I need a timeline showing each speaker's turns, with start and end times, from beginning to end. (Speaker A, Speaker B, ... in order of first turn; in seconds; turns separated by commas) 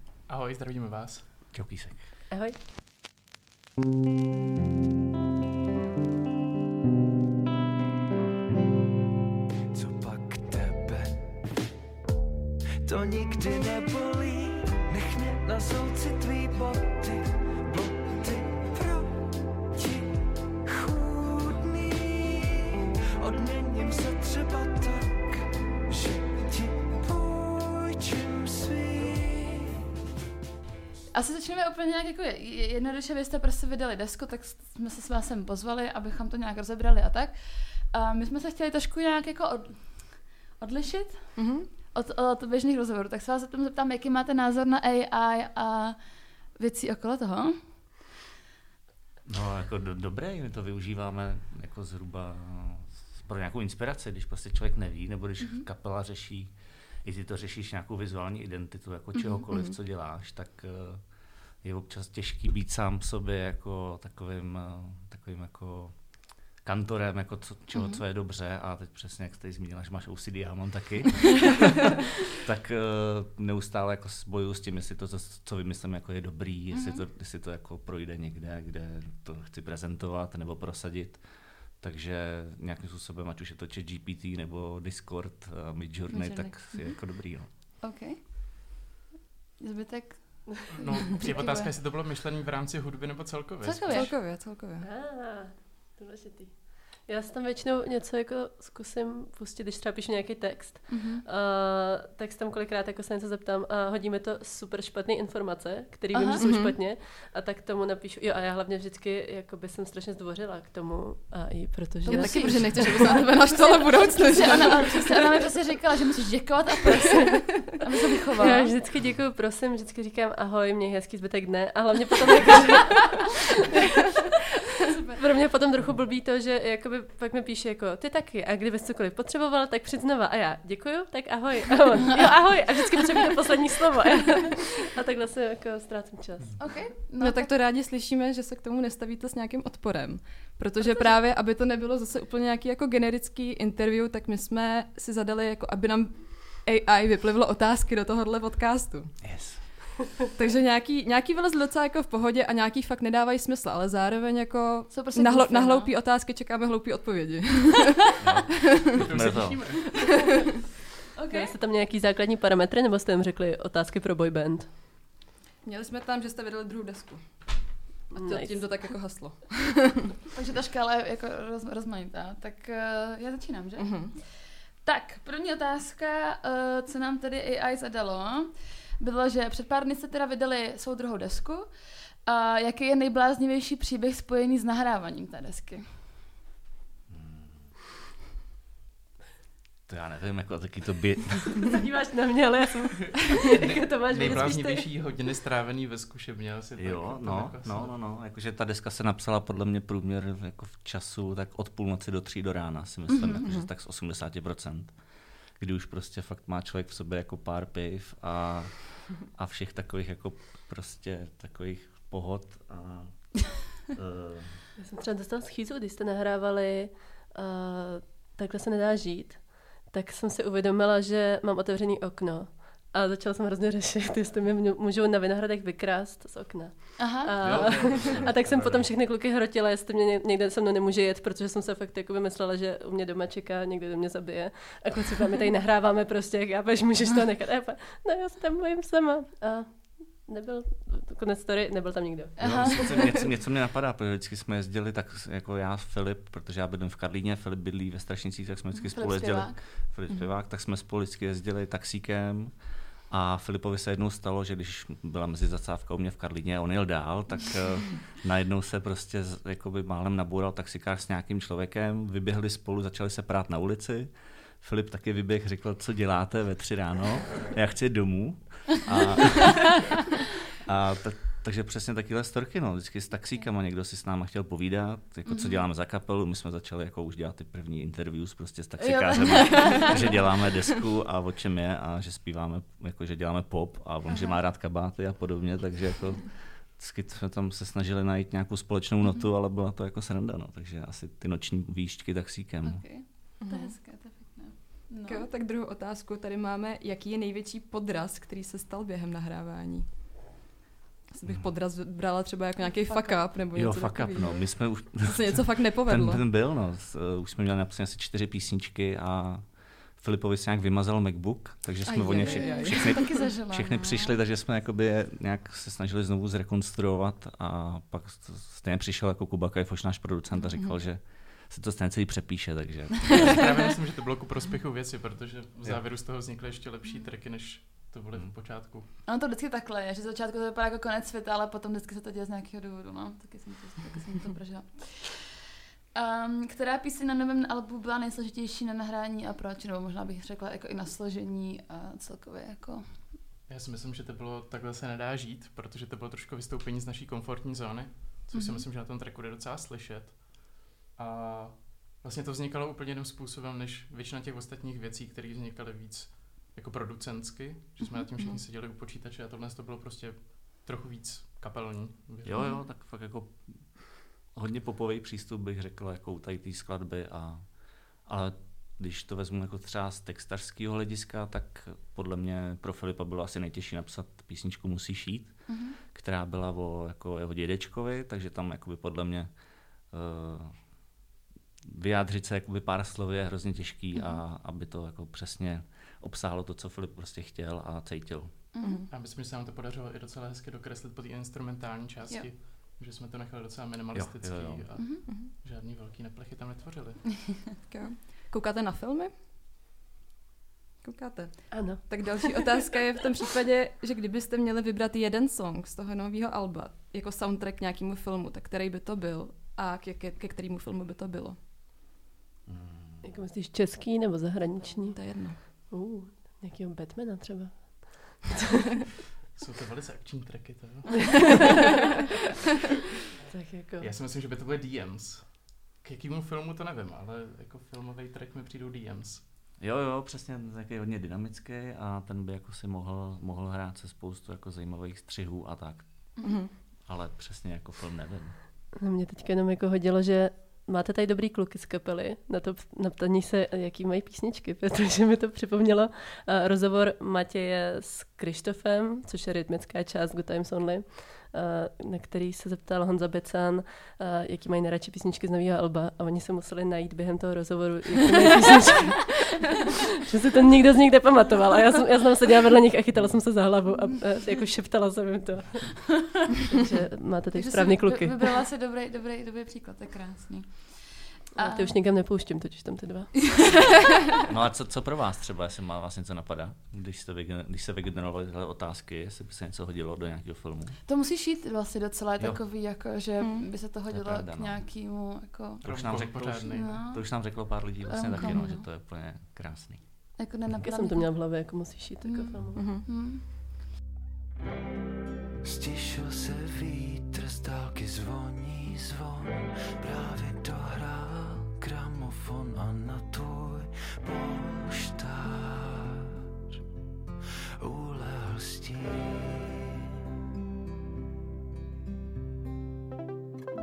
Speaker A: 0.3-1.2, Speaker B: 1.5-2.1, Speaker C: 2.3-2.6, Speaker D: 9.7-11.3, Speaker D: 12.8-29.8, Speaker E: 31.1-47.9, Speaker F: 41.4-41.7, Speaker B: 49.2-87.5, Speaker E: 59.1-59.5, Speaker E: 67.7-68.0, Speaker E: 76.7-77.0, Speaker E: 86.1-88.6, Speaker E: 89.6-91.7, Speaker A: 90.7-94.1, Speaker E: 93.6-94.1, Speaker F: 93.9-94.9, Speaker C: 94.8-113.2, Speaker E: 100.9-101.2, Speaker E: 106.1-106.5, Speaker F: 106.4-106.8, Speaker F: 112.0-115.2, Speaker E: 112.0-118.7, Speaker C: 118.4-123.3, Speaker E: 124.9-125.2, Speaker C: 125.2-136.8, Speaker E: 136.6-137.5, Speaker F: 137.1-149.1, Speaker E: 140.8-141.2, Speaker B: 149.2-150.2, Speaker F: 150.3-159.0, Speaker E: 154.9-155.9, Speaker B: 158.2-159.8, Speaker A: 158.9-160.1, Speaker E: 161.1-161.5, Speaker C: 161.3-164.7, Speaker F: 165.6-170.1, Speaker C: 168.1-168.9, Speaker E: 170.3-186.1, Speaker F: 173.8-174.2, Speaker B: 187.1-187.7, Speaker B: 189.8-191.8, Speaker C: 191.7-194.8, Speaker A: 193.3-198.0, Speaker B: 194.2-194.5, Speaker B: 196.8-214.6, Speaker E: 203.1-203.5, Speaker F: 203.4-203.7, Speaker C: 214.8-243.1, Speaker E: 227.0-227.3, Speaker A: 227.4-228.8, Speaker B: 227.4-228.8, Speaker E: 242.4-243.2, Speaker B: 242.4-270.0, Speaker E: 248.8-249.6, Speaker B: 270.6-293.1, Speaker E: 275.2-275.6, Speaker E: 278.8-280.2, Speaker F: 279.4-279.9, Speaker E: 284.1-284.4, Speaker E: 292.6-295.2, Speaker F: 293.4-293.8, Speaker F: 295.0-299.9, Speaker F: 301.1-306.2, Speaker B: 301.2-301.5, Speaker E: 302.6-303.3, Speaker B: 303.5-323.4, Speaker F: 311.8-313.4, Speaker E: 312.2-314.1, Speaker A: 323.1-328.9, Speaker E: 329.1-335.3, Speaker E: 335.9-343.1, Speaker A: 343.5-362.4, Speaker E: 348.3-348.6, Speaker B: 362.2-380.9, Speaker E: 362.4-362.6, Speaker E: 375.5-375.8, Speaker B: 381.7-388.5, Speaker E: 383.9-384.2, Speaker E: 388.5-388.8, Speaker F: 388.6-388.9, Speaker A: 388.9-397.3, Speaker B: 393.9-394.9, Speaker E: 394.8-395.0, Speaker F: 397.7-399.1, Speaker F: 400.8-411.4, Speaker C: 401.5-402.4, Speaker B: 412.5-413.2, Speaker C: 413.0-418.3, Speaker F: 414.8-415.4, Speaker A: 419.3-421.7, Speaker C: 423.2-423.9, Speaker A: 423.8-429.2, Speaker B: 429.6-438.4, Speaker E: 436.2-436.4, Speaker F: 436.2-436.6, Speaker C: 438.8-468.3, Speaker E: 467.3-471.7, Speaker C: 471.3-473.6, Speaker B: 474.2-480.8, Speaker E: 480.9-485.6, Speaker B: 482.2-482.5, Speaker F: 483.2-483.5, Speaker B: 483.7-484.6, Speaker B: 485.6-490.0, Speaker A: 485.6-486.8, Speaker E: 486.2-488.6, Speaker F: 488.2-488.5, Speaker E: 490.2-493.2, Speaker C: 490.6-492.7, Speaker F: 492.6-492.8, Speaker D: 495.4-505.9, Speaker D: 507.6-509.5